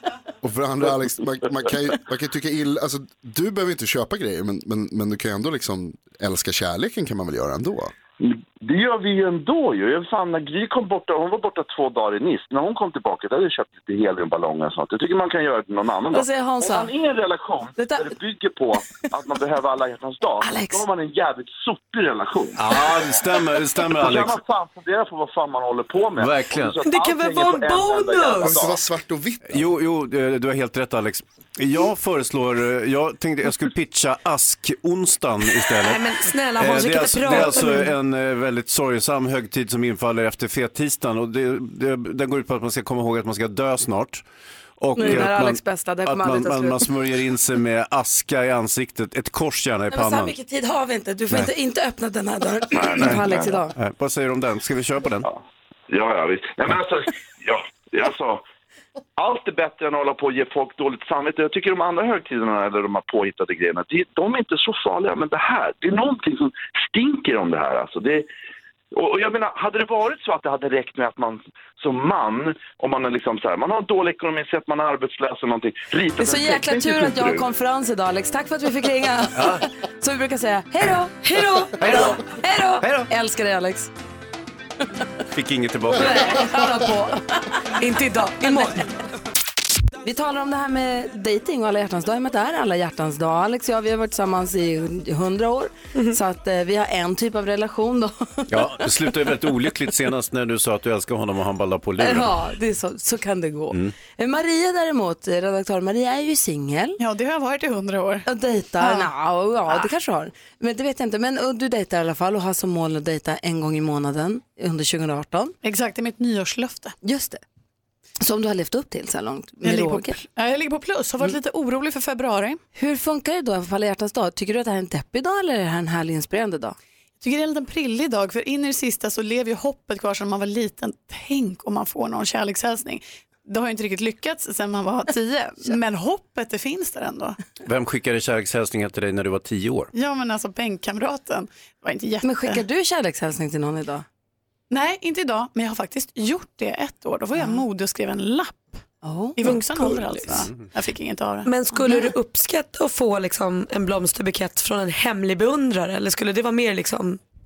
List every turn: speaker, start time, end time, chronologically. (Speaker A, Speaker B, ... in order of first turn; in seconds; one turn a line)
Speaker A: 0.4-7.9
Speaker B: 8.2-22.9
Speaker C: 16.1-16.9
Speaker C: 17.8-18.1
Speaker C: 20.4-20.8
Speaker D: 22.6-24.4
Speaker B: 23.9-28.8
Speaker D: 26.2-26.8
Speaker E: 26.8-28.6
Speaker A: 28.4-29.7
Speaker D: 29.4-36.0
Speaker E: 35.8-37.9
Speaker D: 36.6-44.2
Speaker D: 44.8-50.4
Speaker C: 45.0-46.9
Speaker C: 49.9-53.7
Speaker B: 52.7-53.6
Speaker D: 53.8-55.3
Speaker B: 55.9-58.4
Speaker B: 59.2-68.3
Speaker B: 68.9-77.5
Speaker C: 76.2-83.9
Speaker D: 79.4-79.6
Speaker E: 81.2-81.8
Speaker D: 81.8-82.2
Speaker D: 82.8-83.1
Speaker D: 85.3-86.5
Speaker C: 86.0-87.4
Speaker E: 87.8-88.9
Speaker C: 90.0-98.9
Speaker D: 98.5-102.3
Speaker C: 102.0-107.0
Speaker F: 107.0-108.3
Speaker C: 108.2-115.5
Speaker F: 108.8-109.1
Speaker F: 115.6-117.0
Speaker C: 117.0-117.4
Speaker C: 118.2-120.2
Speaker F: 119.6-122.6
Speaker C: 122.8-126.8
Speaker F: 127.2-137.4
Speaker D: 137.7-139.9
Speaker F: 139.9-142.6
Speaker C: 142.2-144.1
Speaker F: 144.7-148.8
Speaker C: 147.4-147.6
Speaker C: 149.0-149.9
Speaker F: 149.4-152.0
Speaker E: 151.4-157.2